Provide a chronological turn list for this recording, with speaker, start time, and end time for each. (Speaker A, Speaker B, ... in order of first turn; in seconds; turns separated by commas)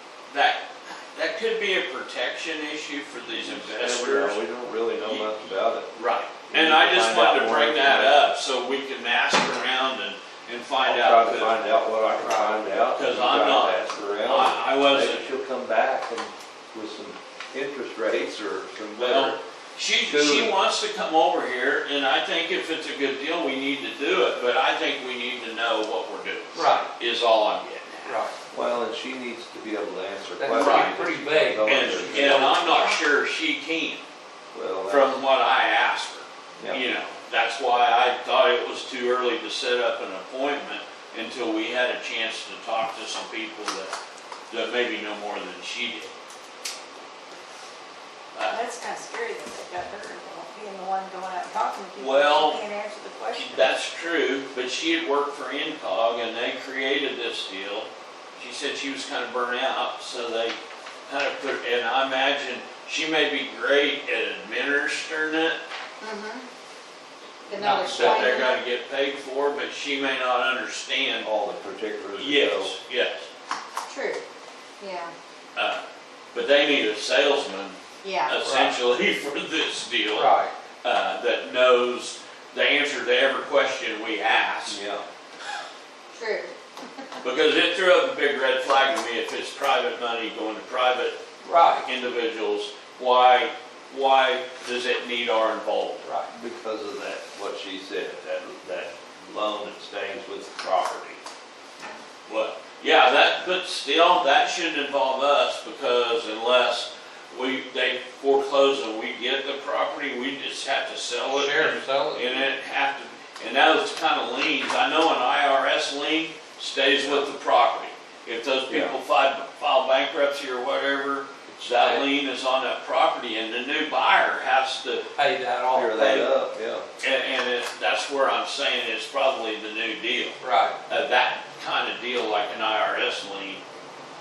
Speaker A: 0.3-4.4, Speaker B: 3.4-5.9, Speaker A: 5.0-11.6, Speaker B: 6.5-8.3, Speaker B: 10.8-19.4, Speaker C: 12.2-12.7, Speaker A: 12.9-15.3, Speaker A: 19.0-28.2, Speaker B: 20.0-20.5, Speaker C: 26.5-26.9, Speaker C: 28.0-28.3, Speaker B: 28.5-32.7, Speaker C: 30.4-33.0, Speaker A: 30.5-30.9, Speaker A: 31.6-34.0, Speaker B: 34.5-35.2, Speaker A: 34.9-43.9, Speaker A: 44.5-46.1, Speaker A: 48.3-48.6, Speaker D: 48.5-53.7, Speaker A: 52.0-52.6, Speaker A: 53.3-65.6, Speaker D: 66.0-66.5, Speaker D: 67.5-68.6, Speaker C: 67.5-68.4, Speaker A: 67.9-71.3, Speaker B: 71.2-72.7, Speaker A: 72.2-73.3, Speaker D: 73.9-74.2, Speaker D: 74.8-75.1, Speaker A: 75.5-84.8, Speaker D: 78.0-78.4, Speaker C: 78.4-78.7, Speaker C: 80.1-80.5, Speaker B: 84.7-85.0, Speaker D: 86.1-86.5, Speaker A: 87.2-91.2, Speaker C: 91.4-91.9, Speaker A: 91.8-96.0, Speaker C: 96.0-96.3, Speaker B: 96.3-101.2, Speaker A: 102.3-125.0, Speaker C: 111.3-112.5, Speaker B: 117.0-117.2, Speaker B: 118.7-119.0, Speaker C: 121.5-122.0, Speaker C: 125.1-126.3, Speaker B: 125.7-126.8, Speaker A: 127.0-130.3, Speaker C: 130.4-130.8, Speaker A: 130.9-133.6